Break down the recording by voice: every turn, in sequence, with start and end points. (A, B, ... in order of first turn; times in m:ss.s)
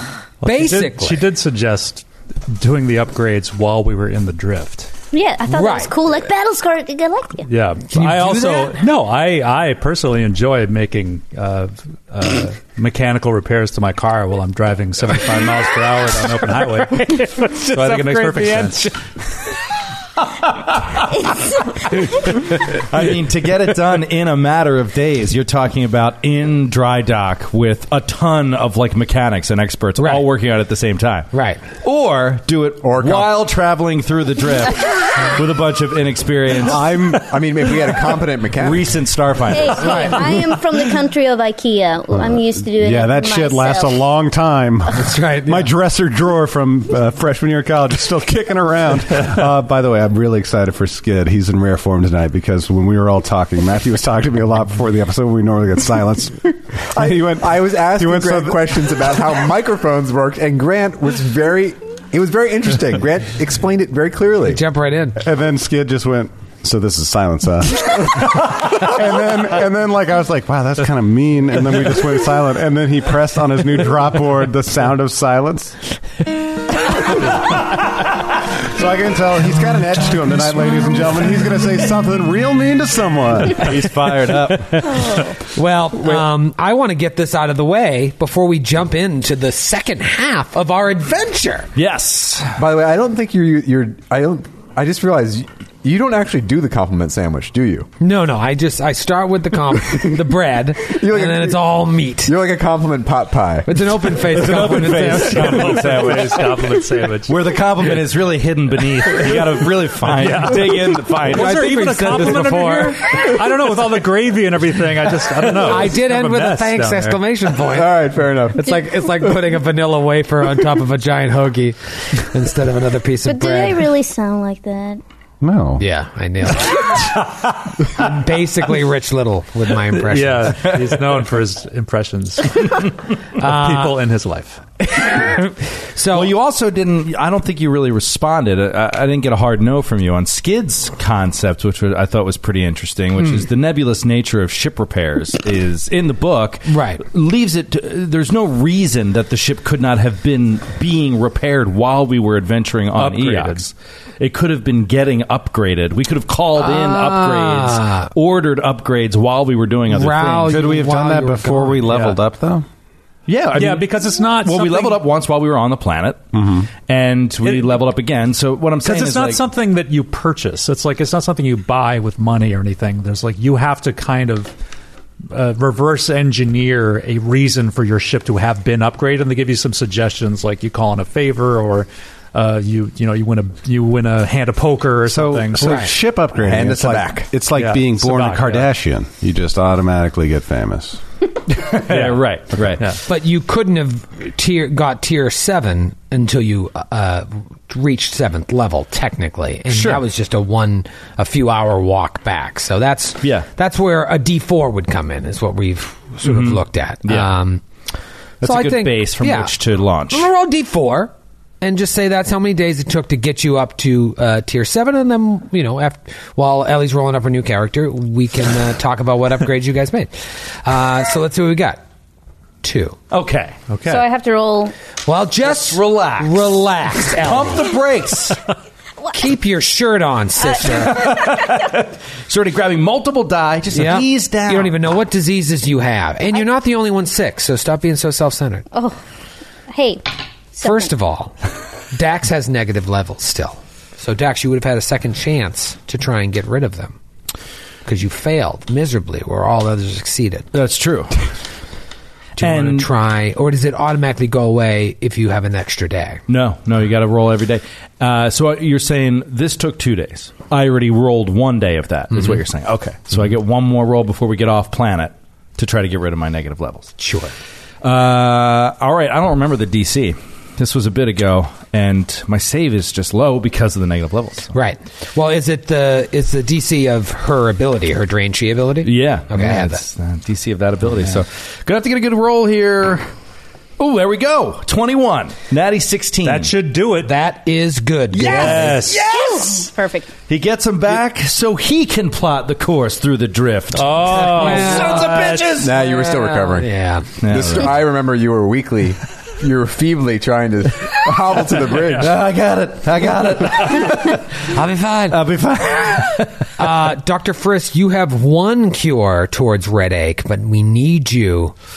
0:00.4-0:04.9 A
0:00.4-0:01.3 B
0:05.1-0:07.4 C
0:05.5-0:05.9 B
0:07.4-0:18.9 A
0:07.9-0:08.7 B
0:17.4-0:18.9 B
0:22.2-0:31.3 D
0:30.0-0:30.2 B
0:31.3-0:31.6 B
0:31.8-0:36.9 D
0:32.8-0:33.4 E
0:36.6-0:37.3 F
0:37.3-0:38.9 E
0:38.6-0:40.4 D
0:39.5-0:44.0 C
0:39.8-0:40.1 B
0:42.2-0:59.1 F
0:44.9-0:45.7 B
0:56.9-1:04.6 E
1:04.4-1:05.2 B
1:05.2-1:15.8 F
1:18.6-1:23.7 F
1:23.6-1:25.3 D
1:24.9-1:25.3 C
1:25.5-1:31.7 B
1:31.8-1:32.6 D
1:32.6-1:37.9 E
1:38.0-1:42.3 B
1:40.8-1:43.7 E
1:43.6-1:46.0 B
1:44.2-1:52.4 D
1:44.5-1:47.4 A
1:50.0-1:57.2 A
1:51.3-1:53.0 B
1:55.6-1:57.9 B
1:57.7-1:58.8 E
1:58.5-2:03.9 B
2:03.2-2:05.0 C
2:05.4-2:05.8 F
2:05.8-2:07.0 B
2:07.9-2:10.7 B
2:10.0-2:12.6 A
2:10.6-2:11.1 D
2:13.4-2:14.0 B
2:13.4-2:14.6 A
2:14.9-2:16.3 B
2:16.1-2:40.6 D
2:26.7-2:27.0 B
2:33.0-2:33.7 A
2:36.6-2:38.1 B
2:39.9-2:41.8 B
2:40.4-2:42.6 F
2:41.9-2:42.2 A
2:43.3-2:46.2 D
2:43.5-2:45.0 A
2:46.3-2:46.7 F
2:46.9-2:49.4 D
2:47.4-2:47.7 A
2:48.8-2:54.5 A
2:55.3-3:05.8 A
3:05.0-3:11.0 F
3:05.6-3:05.9 B
3:06.4-3:07.3 E
3:07.5-3:08.7 A
3:11.5-3:13.0 D
3:11.9-3:12.2 A
3:13.1-3:27.6 B
3:19.7-3:20.0 D
3:23.2-3:23.5 D
3:26.2-3:27.3 D
3:28.4-3:30.3 D
3:28.4-3:29.5 B
3:30.1-3:40.1 B
3:40.6-3:41.8 B
3:42.6-3:43.0 B
3:43.1-3:44.0 D
3:43.9-3:44.7 C
3:45.0-3:47.7 B
3:45.4-3:48.4 D
3:49.1-3:51.1 B
3:50.6-3:54.8 D
3:51.1-3:51.5 C
3:53.7-3:58.6 B
3:58.7-3:59.0 C
3:59.7-4:00.9 C
4:00.6-4:01.4 B
4:01.9-4:07.0 B
4:07.8-4:10.5 B
4:10.5-4:11.2 D
4:12.4-4:16.2 B
4:12.4-4:12.9 D
4:16.3-4:26.9 D
4:27.0-4:27.3 B
4:27.8-4:34.5 D
4:34.5-4:39.8 B
4:38.8-4:43.1 D
4:43.8-4:46.5 D
4:46.2-4:47.1 A
4:47.0-4:48.8 B
4:48.1-4:49.7 D
4:48.2-4:49.0 A
4:49.0-4:50.1 C
4:50.3-4:55.7 D
4:53.7-4:55.7 A
4:54.1-4:55.2 B
4:55.6-4:56.7 E
4:55.8-4:57.1 B
4:57.2-4:57.8 D
4:57.3-5:02.1 E
5:01.8-5:04.4 D
5:04.5-5:05.2 B
5:05.1-5:06.5 D
5:06.6-5:11.5 B